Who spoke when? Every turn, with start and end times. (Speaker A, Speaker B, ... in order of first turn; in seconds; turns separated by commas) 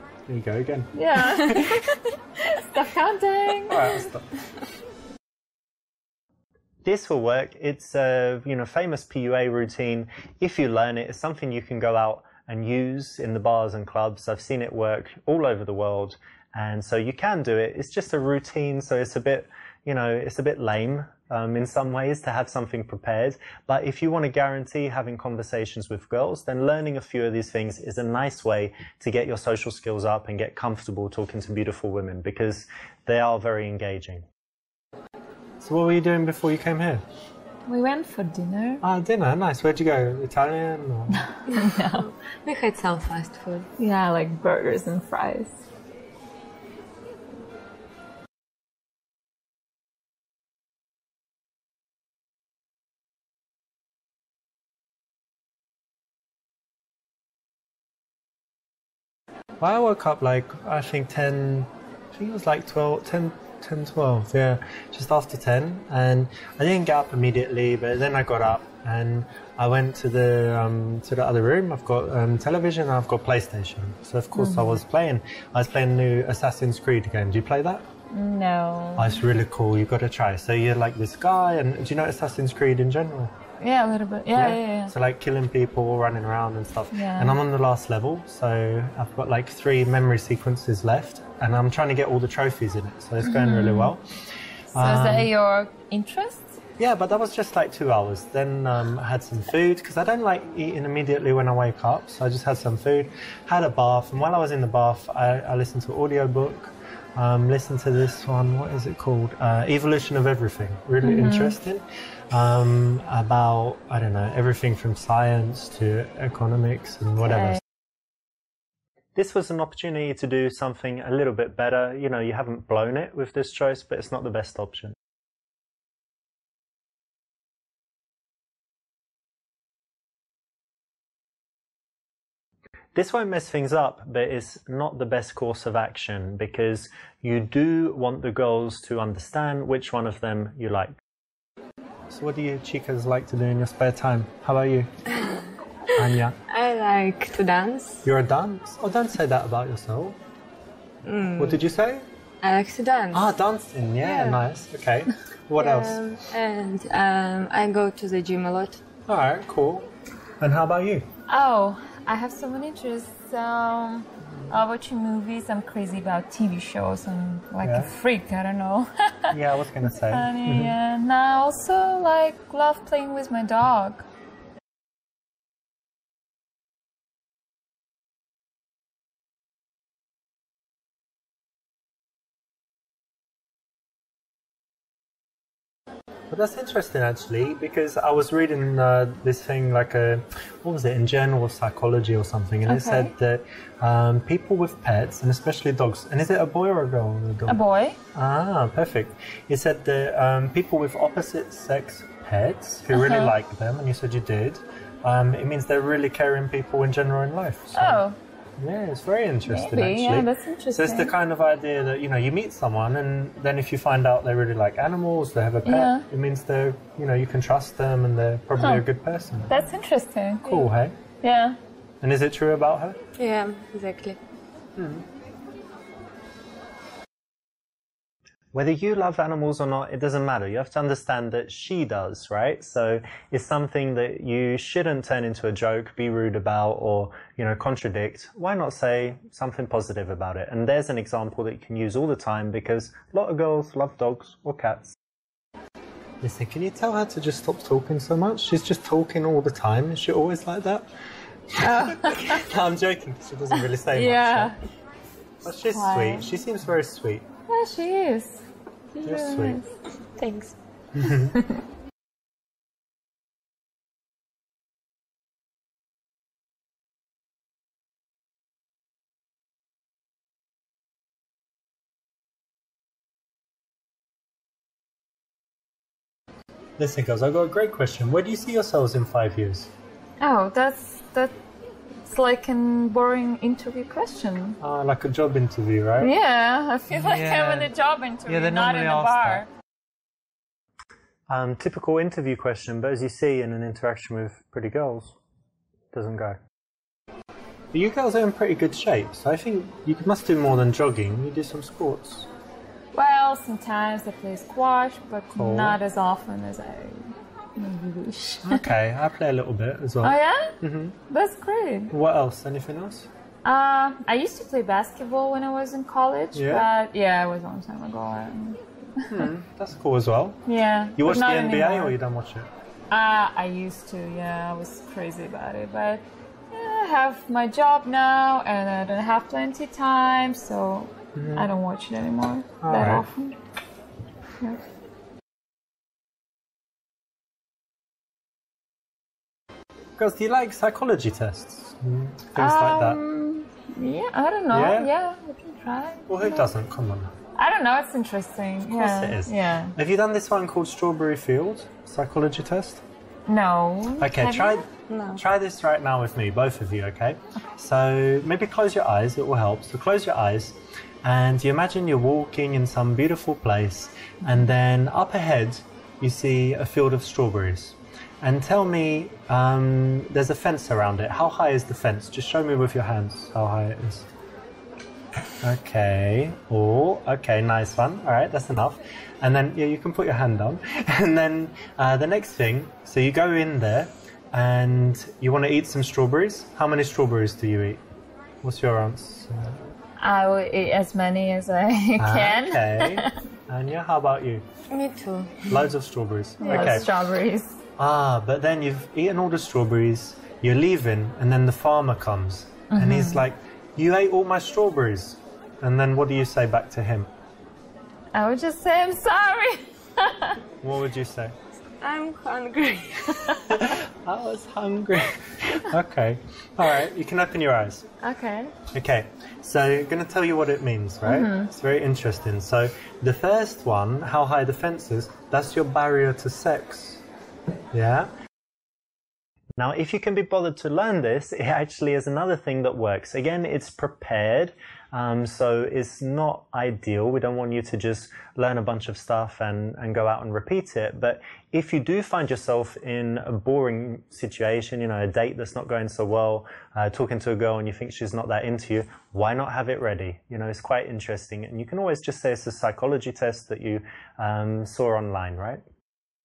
Speaker A: 0.3-1.8, Speaker B: 0.9-4.1, Speaker A: 3.7-4.3, Speaker A: 6.8-34.2, Speaker A: 35.6-37.0, Speaker B: 37.6-38.8, Speaker A: 38.8-41.2, Speaker B: 41.1-42.1, Speaker C: 41.5-43.7, Speaker B: 43.8-45.6, Speaker A: 59.6-77.8, Speaker B: 74.3-74.8, Speaker B: 78.1-79.2, Speaker A: 79.0-83.3, Speaker B: 83.6-84.9, Speaker A: 84.3-94.0, Speaker B: 86.9-87.4, Speaker B: 93.2-93.9, Speaker A: 94.7-95.3, Speaker B: 94.7-96.6, Speaker A: 96.8-117.6, Speaker B: 111.0-111.6, Speaker A: 119.1-125.0, Speaker A: 132.9-141.0, Speaker A: 142.1-144.9, Speaker C: 145.1-145.4, Speaker A: 145.9-146.4, Speaker C: 145.9-148.1, Speaker A: 148.0-150.2, Speaker C: 151.0-151.6, Speaker A: 151.4-152.1, Speaker C: 152.4-153.3, Speaker A: 153.1-156.0, Speaker C: 154.0-154.4, Speaker C: 155.6-158.8, Speaker A: 159.1-159.9, Speaker A: 160.4-161.1, Speaker B: 161.3-174.1, Speaker A: 167.6-167.9, Speaker A: 169.3-170.8, Speaker A: 186.3-197.6, Speaker B: 192.7-193.1, Speaker B: 197.5-198.0, Speaker A: 198.1-208.0, Speaker B: 202.9-203.3, Speaker B: 207.8-208.2, Speaker A: 208.6-219.6, Speaker B: 209.5-211.1, Speaker B: 215.6-216.0, Speaker B: 218.6-218.8, Speaker B: 219.5-220.7, Speaker A: 220.4-220.9, Speaker B: 221.2-221.6, Speaker A: 222.0-223.0, Speaker C: 223.2-224.2, Speaker A: 224.8-225.1, Speaker A: 228.5-244.9, Speaker A: 246.2-250.9, Speaker A: 251.5-254.6, Speaker B: 251.6-252.4, Speaker B: 253.9-254.4, Speaker C: 254.1-254.5, Speaker A: 255.4-257.2, Speaker B: 255.7-256.3, Speaker B: 257.5-259.7, Speaker A: 259.0-259.6, Speaker C: 260.2-260.5, Speaker A: 260.9-261.4, Speaker B: 261.3-261.6, Speaker A: 276.8-279.7, Speaker B: 280.2-281.3, Speaker B: 282.0-284.6, Speaker A: 284.6-286.1, Speaker B: 286.0-289.5, Speaker A: 286.9-287.7, Speaker A: 288.2-289.5, Speaker A: 291.3-295.1, Speaker A: 295.9-296.4, Speaker A: 297.7-302.3, Speaker B: 302.9-308.7, Speaker A: 305.4-305.8, Speaker A: 308.4-310.9, Speaker B: 310.0-311.9, Speaker A: 311.9-313.1, Speaker B: 313.4-319.3, Speaker A: 316.3-316.7, Speaker A: 319.1-320.4, Speaker B: 320.4-321.9, Speaker A: 321.0-322.5, Speaker B: 322.9-333.4, Speaker A: 331.1-331.5, Speaker A: 332.6-333.1, Speaker A: 340.0-343.0, Speaker B: 342.3-346.5, Speaker A: 344.5-344.9, Speaker A: 346.1-347.1, Speaker B: 347.4-349.8, Speaker A: 348.6-352.8, Speaker B: 353.3-354.7, Speaker A: 354.0-374.1, Speaker C: 354.9-355.2, Speaker A: 375.4-387.8, Speaker A: 388.4-389.7, Speaker B: 390.0-393.2, Speaker A: 392.0-394.4, Speaker C: 394.7-395.6, Speaker A: 395.5-396.9, Speaker B: 396.4-397.6, Speaker A: 397.8-407.1, Speaker B: 402.7-403.2, Speaker B: 408.1-410.4, Speaker A: 410.6-411.3, Speaker C: 411.8-413.6, Speaker A: 413.5-417.9, Speaker B: 418.0-418.5, Speaker A: 418.7-427.0, Speaker B: 421.0-421.5, Speaker A: 427.7-428.1, Speaker A: 429.6-455.6